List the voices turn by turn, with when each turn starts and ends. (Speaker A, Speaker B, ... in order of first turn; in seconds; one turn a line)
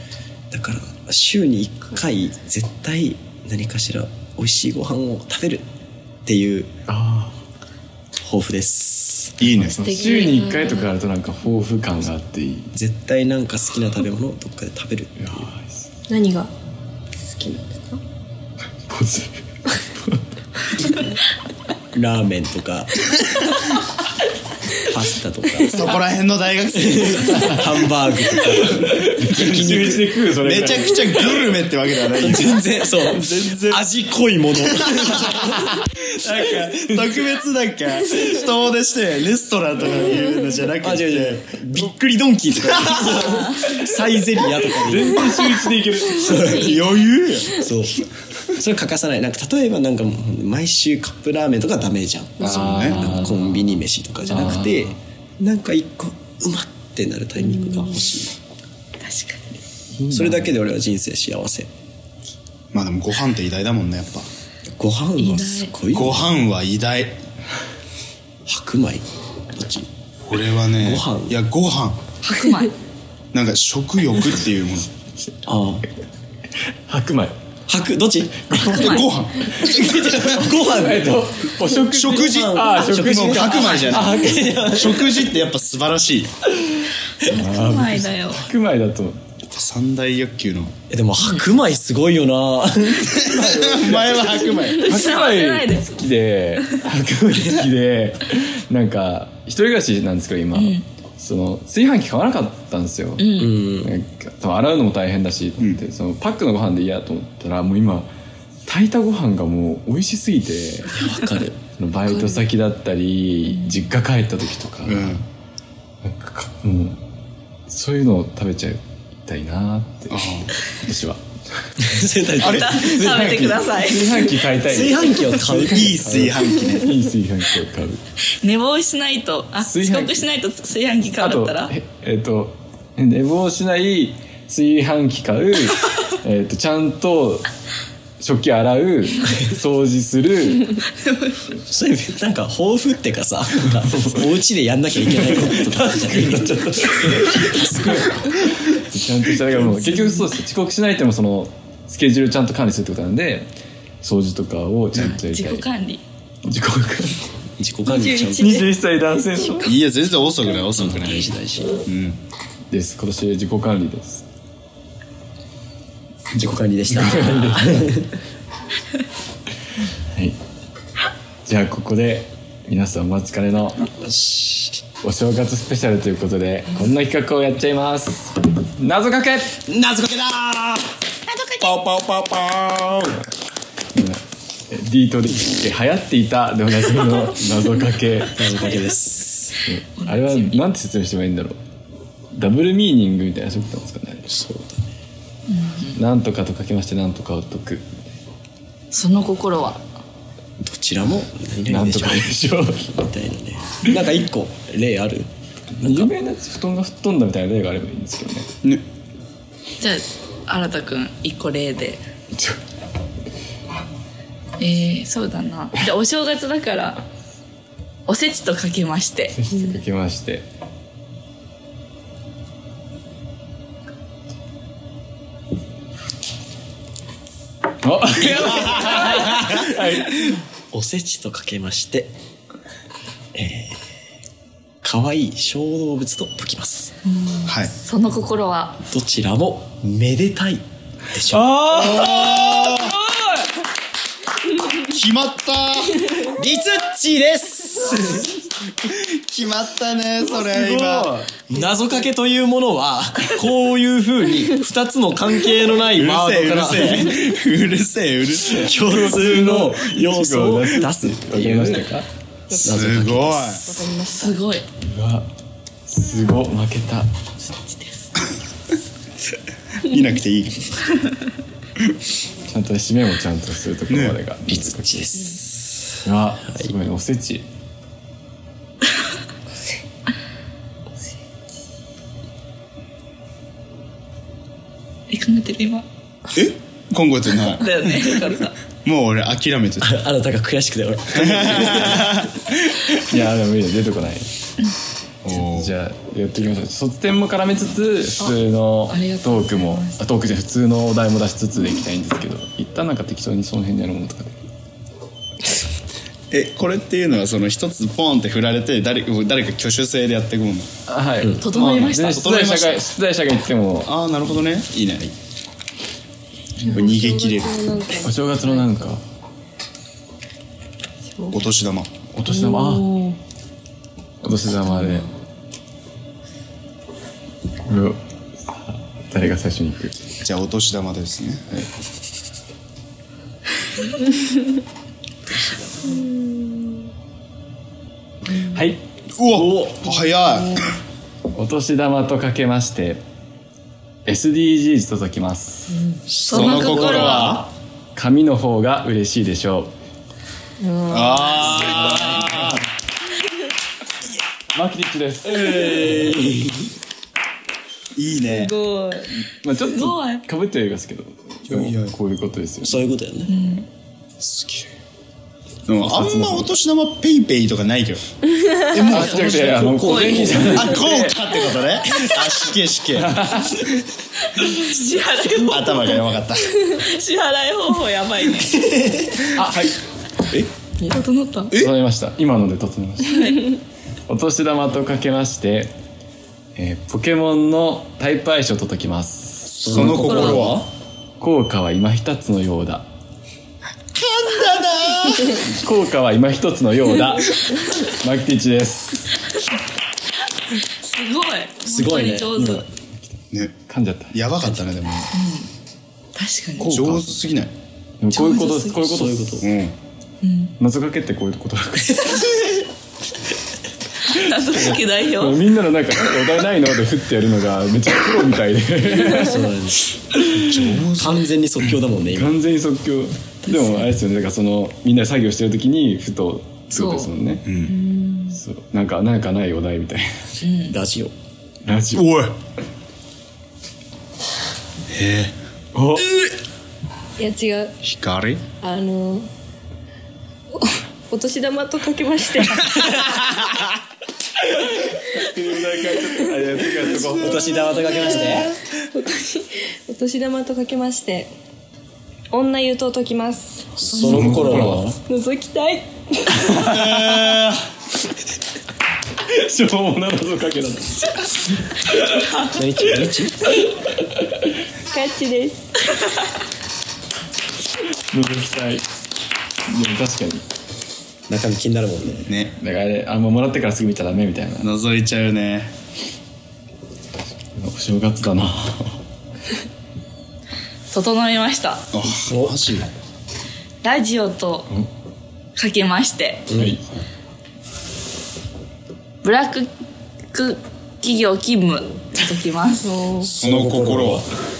Speaker A: 0.5-5.7
Speaker A: 6.3-6.7
Speaker B: 6.9-7.4
Speaker A: 8.2-9.4
Speaker C: 9.4-9.8
Speaker B: 9.4-12.7
Speaker D: 9.8-10.9
Speaker A: 12.7-15.5
Speaker B: 15.2-15.9
Speaker E: 16.1-16.5
Speaker E: 17.2-18.0
Speaker B: 18.9-20.2
Speaker A: 21.9-23.1
Speaker A: 24.8-25.8
Speaker C: 25.7-27.9
Speaker A: 26.8-30.0
Speaker B: 28.6-31.2
Speaker C: 29.3-33.8
Speaker A: 32.2-35.6
Speaker C: 34.9-35.3
Speaker C: 36.0-41.6
Speaker A: 40.8-46.7
Speaker C: 42.7-43.2
Speaker B: 43.6-43.9
Speaker B: 44.7-46.8
Speaker C: 46.4-47.7
Speaker A: 47.5-48.0
Speaker A: 48.5-58.3
Speaker C: 52.4-53.1
Speaker B: 52.4-55.0
Speaker E: 57.6-58.0
Speaker D: 59.0-59.6
Speaker B: 59.9-60.5
Speaker A: 60.1-61.7
Speaker C: 62.7-64.3
Speaker A: 64.7-66.3
Speaker D: 65.2-65.7
Speaker C: 65.9-67.2
Speaker A: 68.5-69.9
Speaker C: 70.3-72.0
Speaker A: 70.8-71.3
Speaker D: 72.2-72.7
Speaker C: 73.3-74.9
Speaker A: 75.5-75.9
Speaker B: 76.7-77.4
Speaker A: 77.7-78.5
Speaker B: 78.5-79.1
Speaker C: 78.6-80.4
Speaker D: 78.7-79.1
Speaker A: 79.6-81.2
Speaker B: 79.7-84.8
Speaker C: 81.9-86.3
Speaker A: 82.2-85.3
Speaker D: 83.5-84.0
Speaker B: 86.6-89.2
Speaker D: 87.2-88.5
Speaker C: 89.5-90.8
Speaker A: 90.9-93.9
Speaker C: 93.1-94.9
Speaker D: 94.7-96.0
Speaker B: 94.8-108.1
Speaker D: 100.5-100.8
Speaker D: 103.2-103.6
Speaker A: 103.4-103.9
Speaker B: 108.7-111.0
Speaker A: 110.9-111.6
Speaker B: 111.7-115.2
Speaker C: 114.9-115.3
Speaker B: 116.0-117.0
Speaker B: 117.7-121.8
Speaker C: 120.1-120.5
Speaker A: 121.8-123.8
Speaker D: 122.4-124.3
Speaker B: 122.5-128.0
Speaker A: 124.5-126.3
Speaker C: 125.4-127.0
Speaker D: 128.3-131.7
Speaker B: 129.6-130.2
Speaker B: 131.2-137.5
Speaker B: 138.2-140.8
Speaker D: 141.0-141.4
Speaker A: 141.7-148.6
Speaker B: 143.9-144.3
Speaker B: 145.1-153.5
Speaker B: 154.0-155.7
Speaker D: 154.9-156.0
Speaker B: 156.4-157.2
Speaker A: 157.6-158.7
Speaker E: 158.0-158.4
Speaker B: 158.3-159.8
Speaker C: 159.6-161.3
Speaker A: 160.8-161.8
Speaker C: 161.8-162.2
Speaker B: 162.7-164.2
Speaker A: 166.4-168.1
Speaker B: 166.9-167.9
Speaker B: 171.4-173.9
Speaker A: 174.0-174.8
Speaker B: 175.0-179.6
Speaker A: 179.7-180.9
Speaker D: 181.3-181.8
Speaker C: 181.7-183.2
Speaker B: 183.9-188.5
Speaker A: 188.3-189.6
Speaker B: 189.7-191.6
Speaker D: 190.0-190.6
Speaker B: 192.3-194.3
Speaker A: 194.3-194.8
Speaker D: 195.5-196.0
Speaker B: 195.9-197.9
Speaker D: 198.9-199.8
Speaker A: 200.6-205.3
Speaker B: 201.7-202.9
Speaker A: 205.8-206.1
Speaker B: 205.8-208.5
Speaker D: 209.8-212.0
Speaker B: 212.3-212.6
Speaker D: 214.6-217.0
Speaker D: 218.1-219.4
Speaker B: 219.3-220.4
Speaker B: 227.8-230.4
Speaker A: 230.7-232.1
Speaker A: 233.3-233.8
Speaker A: 234.8-236.9
Speaker D: 237.1-238.8
Speaker C: 237.4-237.7
Speaker A: 238.9-241.6
Speaker B: 241.3-243.5
Speaker C: 241.7-243.0
Speaker C: 244.8-246.3
Speaker A: 246.3-248.3
Speaker C: 248.8-251.1
Speaker B: 250.3-251.4
Speaker A: 251.5-257.2
Speaker C: 255.9-258.7
Speaker A: 258.5-262.0
Speaker B: 258.8-262.1
Speaker E: 262.5-262.9
Speaker A: 262.6-263.7
Speaker C: 262.6-263.7
Speaker E: 263.6-264.4
Speaker D: 264.2-264.7
Speaker B: 264.8-265.3
Speaker B: 265.9-267.1
Speaker C: 269.8-270.9
Speaker B: 272.5-275.0
Speaker C: 273.9-274.2
Speaker A: 274.5-276.7
Speaker B: 276.0-277.4
Speaker D: 285.1-285.9
Speaker C: 286.3-288.1
Speaker D: 287.6-288.6
Speaker C: 288.8-290.0
Speaker A: 289.8-292.1
Speaker C: 291.1-292.8
Speaker B: 293.1-294.3
Speaker C: 295.2-295.7
Speaker B: 295.3-304.4
Speaker D: 298.9-300.0
Speaker C: 306.3-310.7
Speaker B: 310.9-313.9
Speaker D: 311.4-312.5
Speaker C: 311.5-312.8
Speaker C: 313.9-315.1
Speaker C: 316.6-317.6
Speaker E: 316.6-318.9
Speaker B: 318.0-319.0
Speaker C: 321.3-321.9
Speaker B: 322.1-323.0
Speaker E: 322.3-323.2
Speaker B: 324.2-325.1
Speaker B: 327.7-330.1
Speaker C: 330.2-331.4
Speaker E: 335.9-336.6
Speaker B: 338.5-339.9
Speaker C: 339.2-340.7
Speaker B: 341.3-343.0
Speaker B: 344.1-345.8
Speaker A: 346.1-347.3
Speaker C: 346.2-347.5
Speaker D: 346.3-347.4
Speaker B: 346.6-346.9
Speaker B: 347.9-349.7
Speaker E: 350.6-352.2
Speaker C: 350.9-352.6
Speaker B: 351.6-352.5
Speaker B: 354.5-356.2
Speaker A: 355.3-356.7
Speaker C: 358.0-358.6
Speaker E: 358.2-359.1
Speaker B: 359.4-362.8
Speaker D: 359.7-360.2
Speaker C: 361.5-361.9
Speaker A: 362.6-363.3
Speaker D: 363.3-363.7
Speaker C: 364.2-364.7
Speaker C: 365.7-368.0
Speaker B: 365.8-366.5
Speaker C: 368.7-369.2
Speaker A: 368.7-370.8
Speaker B: 368.9-371.2
Speaker D: 368.9-370.6
Speaker C: 370.5-373.2
Speaker B: 372.9-373.8
Speaker D: 374.3-376.0
Speaker C: 375.4-376.5
Speaker D: 376.6-378.7
Speaker B: 379.4-379.8
Speaker D: 380.9-381.6
Speaker B: 381.5-383.4
Speaker D: 383.1-383.5
Speaker B: 384.1-385.7
Speaker B: 386.6-390.4
Speaker A: 389.6-390.6
Speaker C: 389.6-390.7
Speaker B: 391.2-392.9
Speaker C: 393.9-395.4
Speaker B: 395.4-399.2
Speaker D: 400.5-402.7
Speaker A: 401.7-402.6
Speaker B: 402.3-402.7
Speaker B: 403.7-404.1
Speaker C: 404.1-405.1
Speaker D: 405.1-405.5
Speaker D: 406.1-406.7
Speaker C: 406.6-407.5
Speaker B: 406.6-407.1
Speaker B: 408.0-409.5
Speaker D: 408.1-408.8
Speaker A: 408.8-409.5
Speaker C: 409.4-409.8
Speaker D: 410.2-410.6
Speaker B: 410.6-412.5
Speaker D: 414.1-415.4
Speaker B: 414.1-419.5
Speaker A: 419.1-419.9
Speaker B: 420.1-420.8
Speaker C: 420.4-421.3
Speaker A: 421.0-422.4
Speaker B: 422.1-427.5
Speaker D: 423.5-423.9
Speaker D: 426.8-427.1
Speaker C: 427.4-427.8
Speaker E: 427.7-428.3
Speaker B: 428.3-430.4
Speaker D: 430.4-430.8
Speaker A: 430.7-431.1
Speaker B: 431.6-432.1
Speaker C: 431.9-432.3
Speaker C: 434.9-435.4
Speaker B: 435.7-436.3
Speaker E: 437.2-437.8
Speaker C: 437.8-438.4
Speaker E: 438.6-439.3
Speaker E: 440.5-443.2
Speaker B: 444.5-447.5
Speaker E: 447.1-451.3
Speaker A: 447.1-448.6
Speaker E: 452.3-454.3
Speaker A: 453.8-455.0
Speaker B: 454.0-454.9
Speaker C: 454.1-454.8
Speaker E: 455.1-456.5
Speaker B: 456.4-457.4
Speaker C: 456.5-457.6
Speaker B: 459.3-462.5
Speaker A: 462.5-463.5
Speaker B: 464.1-464.5
Speaker E: 464.9-466.0
Speaker B: 468.1-468.9
Speaker B: 469.7-470.4
Speaker A: 471.3-472.3
Speaker C: 472.3-472.6
Speaker B: 472.6-474.7
Speaker C: 474.6-475.7
Speaker B: 477.6-479.0
Speaker D: 480.9-481.9
Speaker C: 481.9-482.9
Speaker A: 482.1-482.6
Speaker D: 483.8-484.7
Speaker D: 485.6-486.5
Speaker A: 486.5-486.8
Speaker B: 486.6-486.8
Speaker D: 489.2-489.7
Speaker D: 490.3-492.9
Speaker E: 492.8-493.3
Speaker A: 493.2-494.2
Speaker C: 493.4-494.3